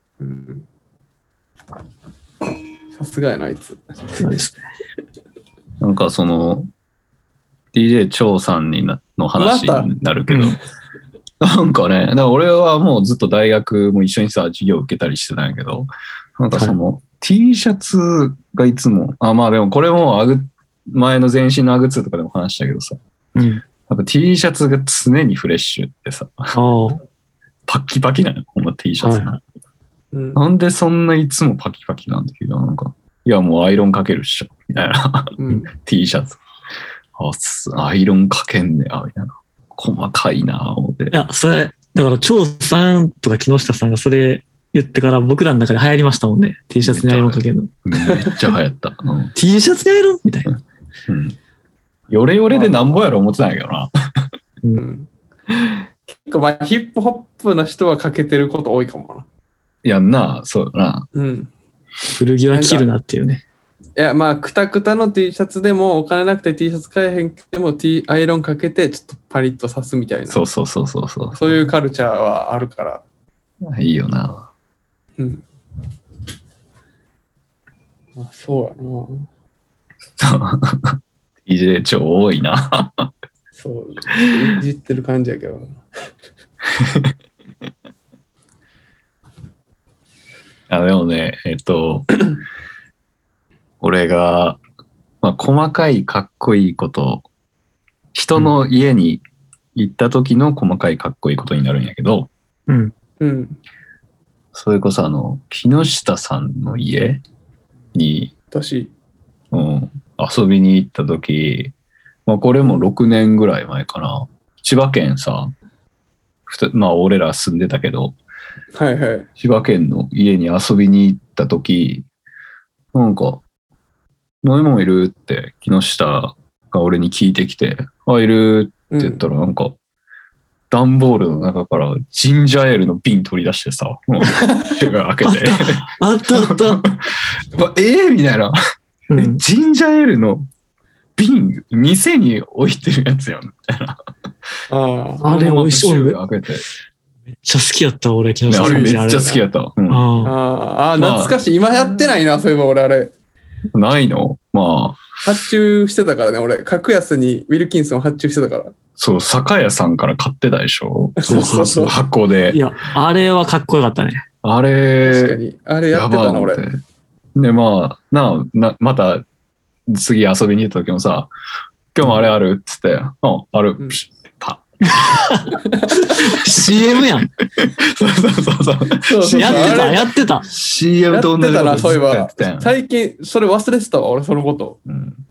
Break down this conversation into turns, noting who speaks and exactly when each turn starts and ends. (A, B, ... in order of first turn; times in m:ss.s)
0:00.2-0:00.6 A
0:02.9-0:03.8 A
0:04.2-0:04.6 B
0:05.8-0:06.7 C
0:07.7-0:10.6 C
0:09.4-0:09.9 A
0:10.3-0:10.6 B
0:11.4-0:23.0 C
0:23.3-0:23.6 B
0:23.9-0:26.6 C
0:26.5-0:27.0 B
0:27.7-0:29.4 C
0:29.0-0:29.4 B
0:30.1-0:30.4 A
0:30.3-0:36.4 C
0:35.4-0:35.7 A
0:37.2-0:41.1 C
0:41.1-0:47.7 B
0:46.8-0:49.3 C
0:48.0-0:48.4 A
0:49.3-0:50.5 B
0:51.1-0:51.4 C
0:52.1-0:53.9 C
0:52.5-0:53.0 A
0:54.7-0:55.1 A
0:56.1-0:59.2 A
0:59.8-1:01.1 C
1:01.1-1:01.5 A
1:02.1-1:03.4 B
1:02.5-1:02.9 A
1:04.0-1:10.4 A
1:10.3-1:11.6 C
1:11.3-1:13.0 A
1:13.6-1:14.5 C
1:15.2-1:15.4 A
1:18.2-1:19.3 A
1:20.2-1:23.1 C
1:23.6-1:25.8 A
1:26.7-1:27.1 C
1:30.7-1:32.2 C
1:33.8-1:34.6 C
1:35.2-1:37.2 C
1:38.1-1:39.2 C
1:39.7-1:42.3 C
1:42.7-1:42.9 B
1:43.2-1:43.6 A
1:44.5-1:47.2 C
1:47.9-1:48.3 C
1:48.5-1:48.9 A
1:49.5-1:51.7 C
1:52.2-1:55.5 C
1:56.5-1:58.2 C
1:58.7-1:59.3 A
1:59.4-2:02.0 C
2:02.9-2:03.4 C
2:04.4-2:09.8 C
2:08.9-2:09.2 A
2:10.7-2:18.6 C
2:15.2-2:16.8 B
2:19.1-2:19.4 B
2:19.1-2:20.5 C
2:21.2-2:24.0 C
2:24.7-2:25.3 A
2:25.2-2:26.2 B
2:25.2-2:26.6 C
2:27.4-2:29.3 B
2:28.5-2:30.1 C
2:28.5-2:29.4 A
2:29.9-2:30.3 B
2:30.2-2:33.1 A
2:31.0-2:31.4 C
2:33.7-2:35.2 C
2:35.2-2:38.7 A
2:39.0-2:42.6 C
2:41.2-2:42.0 A
2:41.2-2:41.8 B
2:42.5-2:44.2 B
2:44.4-2:45.4 C
2:45.0-2:46.6 A
2:45.9-2:46.8 C
2:47.3-2:49.2 C
2:49.9-2:51.3 C
2:51.9-2:55.3 C
2:54.9-2:57.3 B
2:55.5-2:56.1 A
2:57.6-3:02.7 C
2:59.0-3:00.0 A
2:59.4-3:00.5 B
3:01.1-3:04.8 A
3:04.9-3:05.2 C